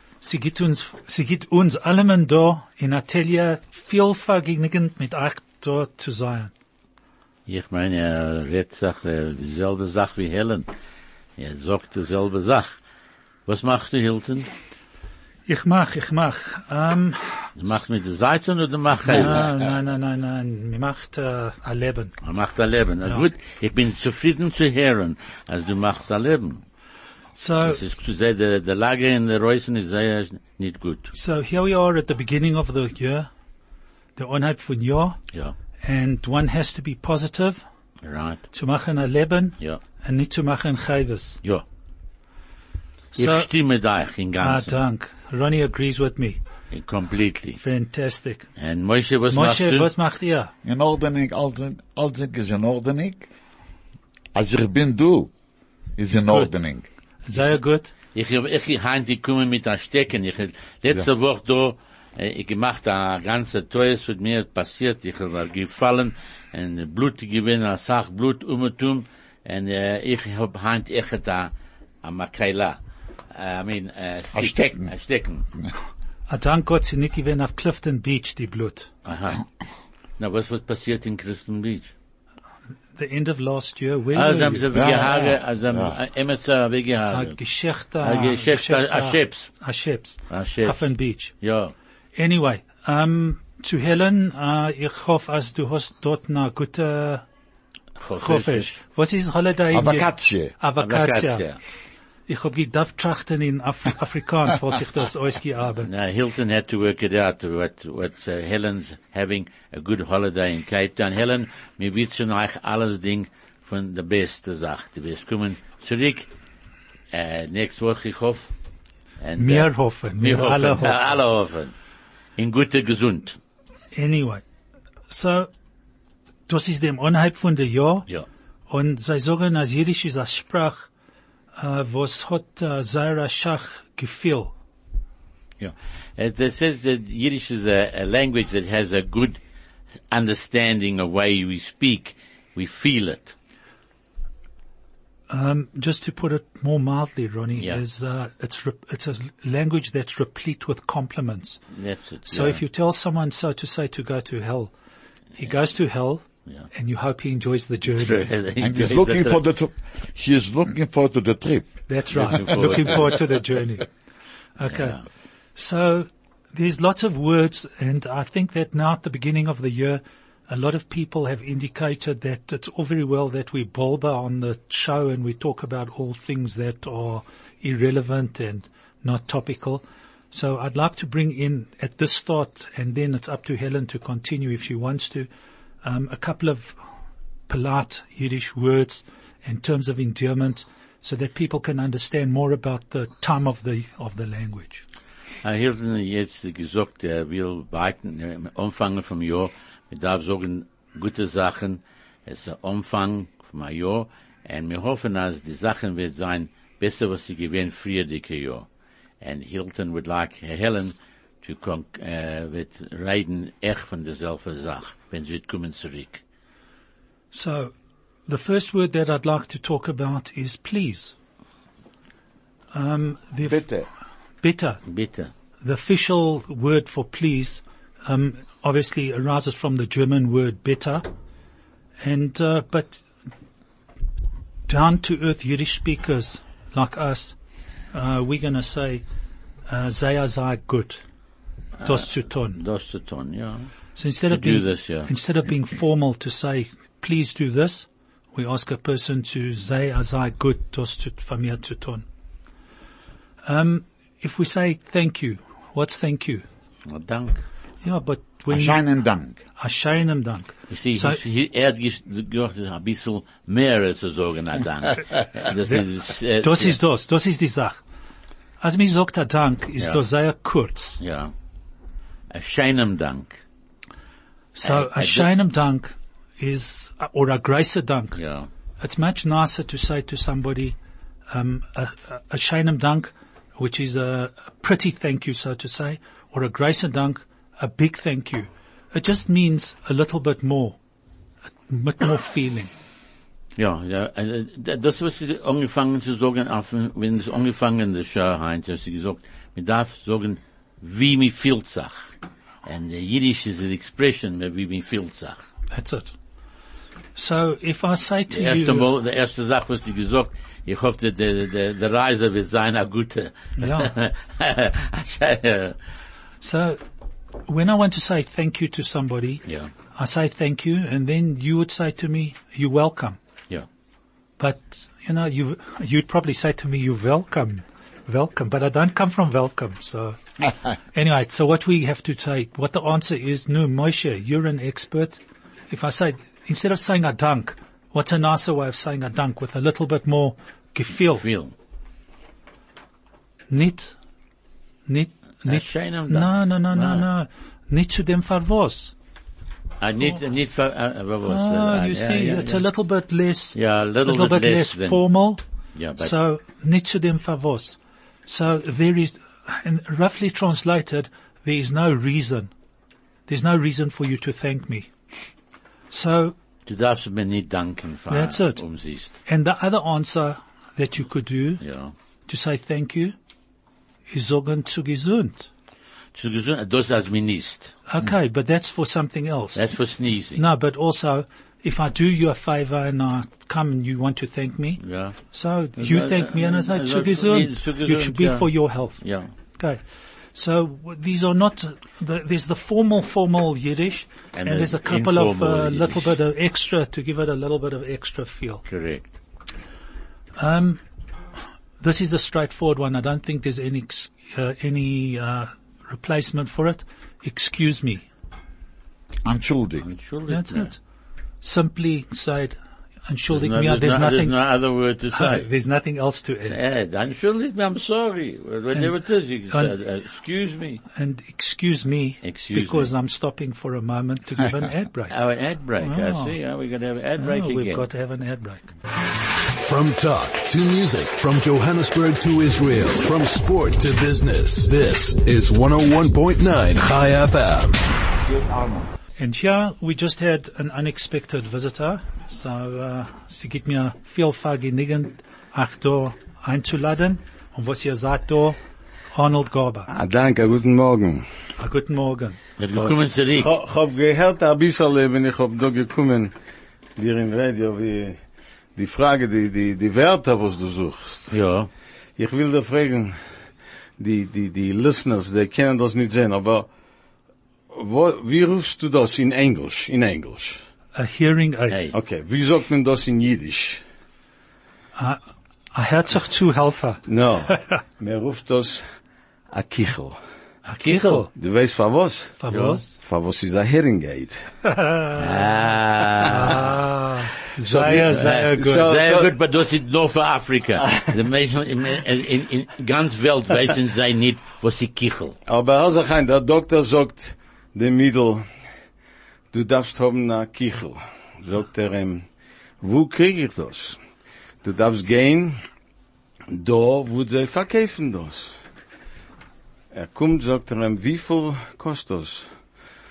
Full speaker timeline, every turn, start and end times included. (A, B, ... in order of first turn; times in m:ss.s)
0:00.2-0:06.5 A
0:07.5-0:10.7 B
0:11.4-0:12.8 B
0:13.5-0:14.5 B
0:15.5-0:17.5 A
0:17.6-0:19.5 B
0:19.0-0:22.1 A
0:22.2-0:26.6 B
0:27.4-0:27.8 A
0:27.6-0:31.1 B
0:31.1-0:33.3 A
0:34.2-0:35.2 A
0:35.8-0:37.6 A
0:38.0-0:38.4 B
0:38.5-0:41.4 A
0:43.1-0:43.5 A
0:43.2-0:44.7 B
0:44.4-0:46.4 A
0:46.7-0:47.6 B
0:47.6-0:48.5 A
0:48.6-0:49.9 B
0:49.3-0:50.5 A
0:50.6-0:53.3 C
0:54.3-0:55.3 C
0:56.0-0:56.8 C
0:56.1-0:56.5 A
0:57.2-0:57.9 A
0:58.1-1:11.5 B
1:12.0-1:12.8 B
1:13.3-1:15.4 B
1:14.3-1:14.9 C
1:16.3-1:18.9 A
1:19.0-1:19.4 B
1:20.2-1:21.9 B
1:23.0-1:24.9 A
1:24.1-1:27.4 B
1:24.7-1:25.9 C
1:27.1-1:31.3 A
1:28.0-1:29.5 B
1:30.3-1:31.7 B
1:32.2-1:37.2 A
1:38.0-1:38.8 B
1:38.2-1:41.4 A
1:39.7-1:40.5 C
1:40.8-1:41.6 B
1:42.3-1:45.9 A
1:45.8-1:56.3 B
1:57.1-1:58.5 B
1:59.2-2:01.7 B
1:59.4-2:01.1 A
2:02.4-2:03.4 B
2:03.9-2:04.4 A
2:05.1-2:05.5 A
2:06.5-2:08.0 A
2:08.7-2:10.9 A
2:11.6-2:14.5 A
2:15.6-2:19.4 B
2:20.1-2:23.3 B
2:25.3-2:31.6 A
2:31.7-2:32.6 B
2:32.2-2:34.7 A
2:35.4-2:38.3 A
2:37.9-2:39.4 B
2:38.6-2:41.8 C
2:41.9-2:43.9 A
2:42.1-2:43.1 B
2:44.6-2:45.0 A
2:44.6-2:45.0 B
2:45.6-3:05.3 A
3:05.8-3:06.8 A
3:07.5-3:14.8 A
3:15.4-3:28.7 B
3:29.2-3:36.2 B
3:37.3-3:37.7 A
3:38.3-3:41.1 A
3:42.7-3:43.6 A
3:43.4-3:43.9 C
3:44.4-3:44.8 A
3:44.9-3:45.3 B
3:45.6-3:51.0 A
3:52.0-3:53.0 A
3:54.7-3:57.3 A
3:57.9-3:59.0 A
3:59.7-4:01.0 A
4:01.8-4:03.7 B
4:01.8-4:02.6 A
4:04.0-4:12.0 A
4:04.3-4:05.1 B
4:13.4-4:16.4 A
4:16.9-4:17.4 B
4:17.8-4:18.8 A
4:18.5-4:19.4 C
4:19.6-4:21.2 A
4:20.7-4:26.8 B
4:26.4-4:27.8 A
4:28.6-4:31.0 A
4:31.0-4:31.3 B
4:32.3-4:33.4 B
4:34.5-4:38.2 A
4:34.6-4:35.3 B
4:38.1-4:38.4 B
4:38.8-4:40.8 A
4:41.3-4:50.8 A
4:51.7-4:52.7 A
4:53.6-5:02.1 B
5:02.6-5:05.4 B
5:05.7-5:06.1 A
5:07.2-5:08.9 A
5:08.3-5:15.8 B
5:13.6-5:13.9 A
5:16.4-5:16.8 A
5:17.4-5:19.4 A
5:19.9-5:23.2 A
5:24.4-5:30.2 A
5:30.9-5:41.2 A
5:41.1-5:41.5 B
5:43.5-5:43.9 A
5:44.8-5:48.9 A
5:45.4-5:47.0 B
5:49.8-5:52.6 B
5:51.2-5:55.4 A
5:53.5-5:55.0 B
5:55.8-5:56.1 B
5:56.0-6:02.5 A
6:03.3-6:04.9 A
6:05.9-6:06.3 A
6:06.6-6:09.2 B
6:08.1-6:08.6 A
6:09.2-6:11.6 A
6:11.6-6:11.9 B
6:12.3-6:13.1 A
6:14.1-6:15.5 A
6:16.1-6:17.8 B
6:17.9-6:19.7 A
6:19.5-6:20.4 B
6:20.4-6:24.8 A
6:24.8-6:25.2 B
6:25.3-6:29.0 A
6:25.8-6:29.3 B
6:29.6-6:29.8 A
6:30.3-6:38.6 A
6:34.3-6:36.2 B
6:38.7-6:39.1 B
6:40.4-6:40.8 A
6:41.8-6:48.0 A
6:49.2-6:49.8 C
6:49.8-6:50.7 B
6:50.3-6:50.8 A
6:51.4-6:54.3 A
6:53.3-6:55.5 B
6:55.1-6:56.6 A
6:56.4-7:00.8 B
7:00.9-7:05.2 A
7:02.2-7:02.9 B
7:05.1-7:07.8 B
7:05.8-7:06.4 A
7:07.2-7:08.7 A
7:09.6-7:17.8 D
7:18.3-7:18.9 C
7:19.2-7:28.6 A
7:29.1-7:29.9 A
7:29.9-7:31.2 E
7:31.6-7:32.4 A
7:32.6-7:33.5 B
7:32.8-7:36.3 E
7:37.0-7:38.2 E
7:38.8-7:41.3 E
7:41.3-7:41.7 B
7:42.2-7:43.2 E
7:44.0-7:46.7 E
7:47.7-7:50.6 E
7:50.9-7:51.8 A
7:51.7-7:51.9 B
7:51.9-7:53.8 E
7:55.7-7:57.0 A
7:57.1-7:58.8 E
7:59.5-8:00.2 E
8:00.7-8:01.3 A
8:00.7-8:01.2 B
8:01.3-8:02.4 E
8:02.4-8:02.9 A
8:02.5-8:02.8 B
8:02.9-8:04.4 E
8:04.6-8:05.5 A
8:05.2-8:06.7 B
8:06.2-8:08.9 A
8:07.6-8:09.3 E
8:07.8-8:15.4 B
8:15.5-8:18.4 E
8:19.5-8:22.2 E
8:22.8-8:24.0 E
8:24.6-8:25.6 E
8:26.5-8:28.5 E
8:29.9-8:32.4 E